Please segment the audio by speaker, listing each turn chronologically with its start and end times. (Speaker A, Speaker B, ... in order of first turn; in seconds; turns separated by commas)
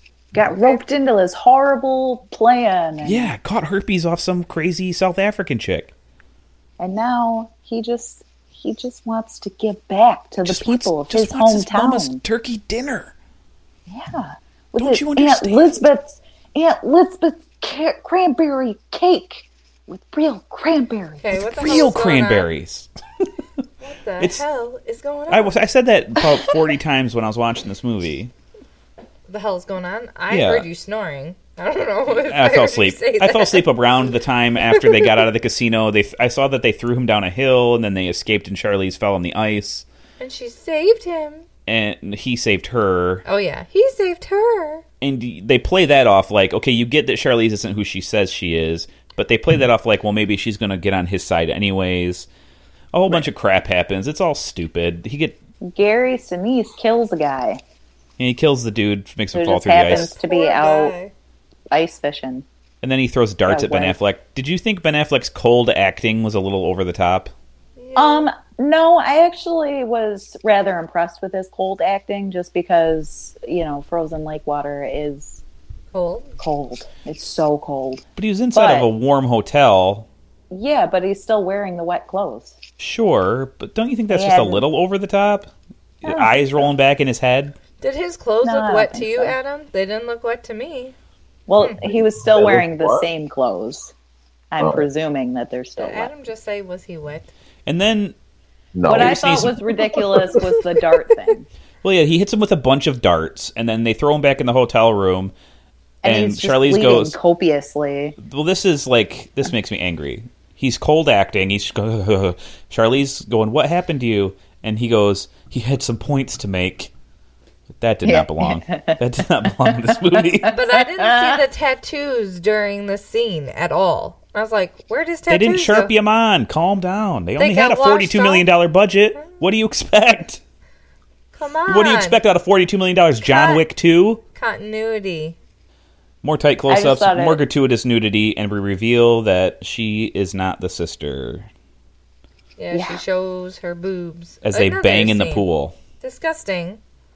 Speaker A: 0.3-3.3, Speaker B: 3.0-5.9, Speaker A: 6.8-12.2, Speaker B: 10.4-13.1, Speaker A: 13.9-21.3, Speaker B: 14.8-15.8, Speaker C: 21.2-22.5, Speaker B: 21.5-22.9, Speaker C: 23.8-25.6, Speaker B: 25.3-28.3, Speaker C: 29.3-33.6, Speaker B: 30.3-30.7, Speaker B: 32.1-39.8, Speaker C: 34.7-35.1, Speaker C: 40.2-41.4, Speaker B: 41.6-43.2, Speaker C: 43.2-44.8, Speaker B: 45.0-52.3, Speaker B: 52.9-55.4, Speaker A: 55.7-57.6, Speaker B: 58.2-60.1, Speaker A: 59.3-60.9, Speaker C: 59.8-61.1, Speaker A: 61.7-62.4, Speaker B: 62.8-67.3, Speaker A: 63.5-64.0, Speaker C: 67.8-68.3, Speaker A: 68.0-75.4, Speaker C: 75.9-76.3, Speaker A: 76.4-78.0, Speaker B: 78.2-80.1, Speaker A: 78.5-78.9, Speaker A: 80.5-82.6, Speaker B: 82.8-85.5, Speaker A: 84.1-84.6, Speaker B: 86.0-87.5, Speaker A: 86.0-86.7, Speaker C: 87.8-90.9, Speaker A: 88.4-89.3, Speaker A: 91.5-93.9, Speaker D: 92.2-93.1, Speaker A: 94.5-96.1, Speaker D: 94.6-94.9, Speaker C: 95.8-97.3, Speaker B: 97.7-98.1, Speaker D: 98.7-99.5, Speaker A: 98.8-101.5, Speaker B: 98.9-99.6, Speaker B: 101.8-105.3, Speaker B: 106.0-107.2, Speaker A: 106.0-108.2, Speaker B: 108.2-116.9, Speaker B: 117.8-120.5, Speaker A: 118.0-121.4, Speaker C: 120.5-125.9, Speaker B: 125.3-130.4, Speaker C: 127.4-128.5, Speaker C: 131.3-132.2, Speaker B: 131.7-134.2, Speaker C: 133.2-133.6, Speaker C: 134.3-135.3, Speaker B: 136.2-141.5, Speaker A: 136.7-137.4, Speaker C: 142.6-145.4, Speaker A: 142.7-143.0, Speaker B: 144.4-145.7, Speaker C: 146.0-146.8